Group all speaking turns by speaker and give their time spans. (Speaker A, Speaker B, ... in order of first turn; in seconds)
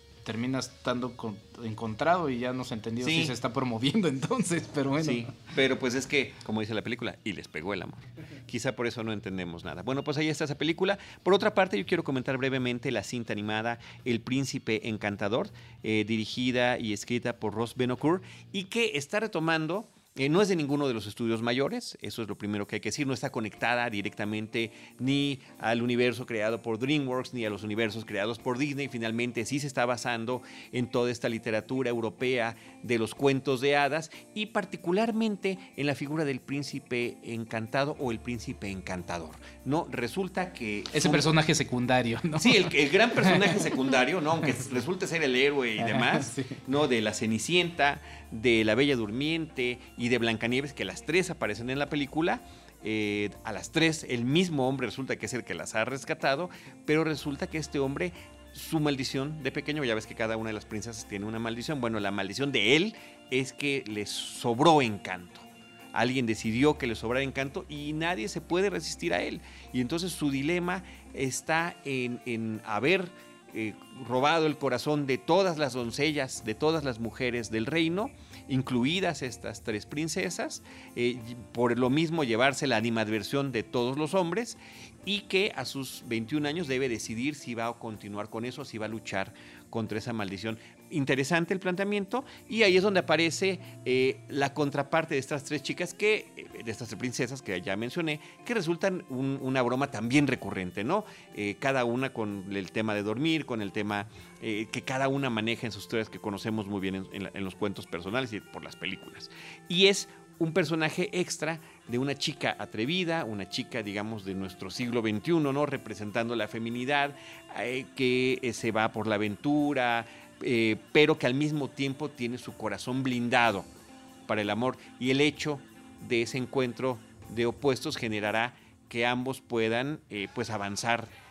Speaker A: 0.2-5.3, 40.9-43.7, 45.8-46.6
Speaker B: 3.0-3.3, 5.0-41.3, 42.4-123.7, 124.3-131.1